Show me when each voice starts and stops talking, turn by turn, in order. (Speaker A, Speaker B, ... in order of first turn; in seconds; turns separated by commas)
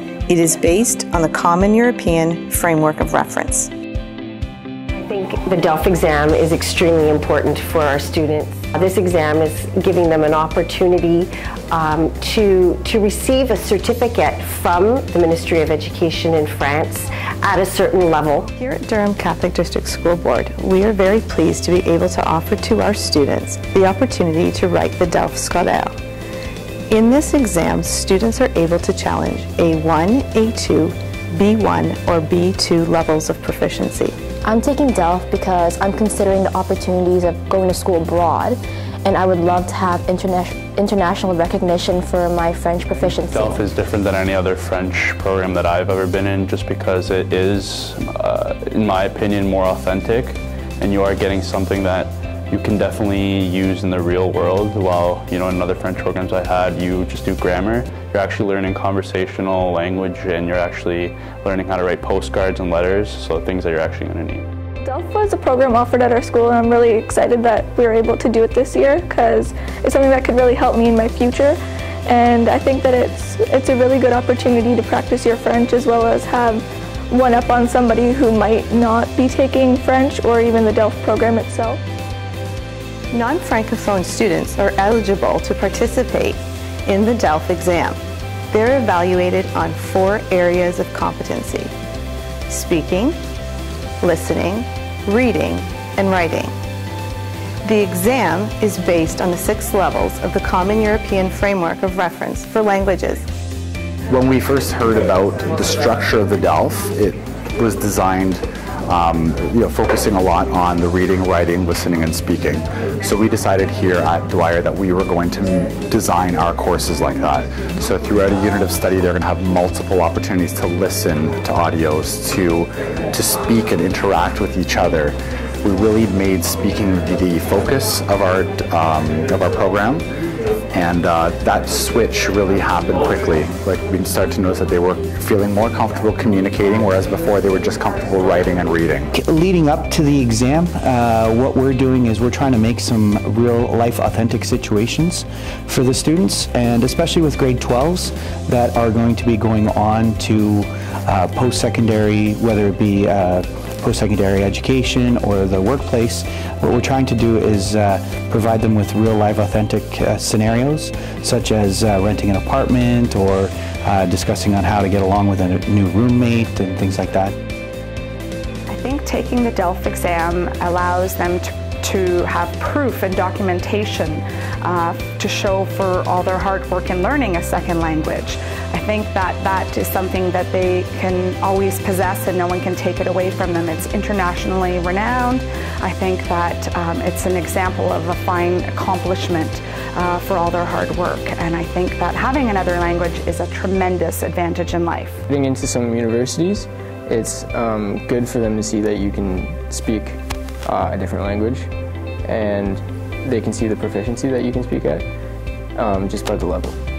Speaker A: 0.3-3.7, Speaker B: 4.9-18.5, Speaker A: 18.5-25.9, Speaker A: 26.9-34.2, Speaker C: 34.5-43.6, Speaker D: 43.3-64.5, Speaker E: 64.8-81.8, Speaker A: 83.1-88.0, Speaker A: 88.5-91.7, Speaker A: 92.5-93.2, Speaker A: 94.0-96.5, Speaker A: 97.6-103.3, Speaker F: 104.1-130.1, Speaker F: 130.7-139.1, Speaker G: 139.1-167.3, Speaker H: 168.7-195.2, Speaker I: 195.3-201.7, Speaker I: 202.2-205.1, Speaker I: 205.8-206.8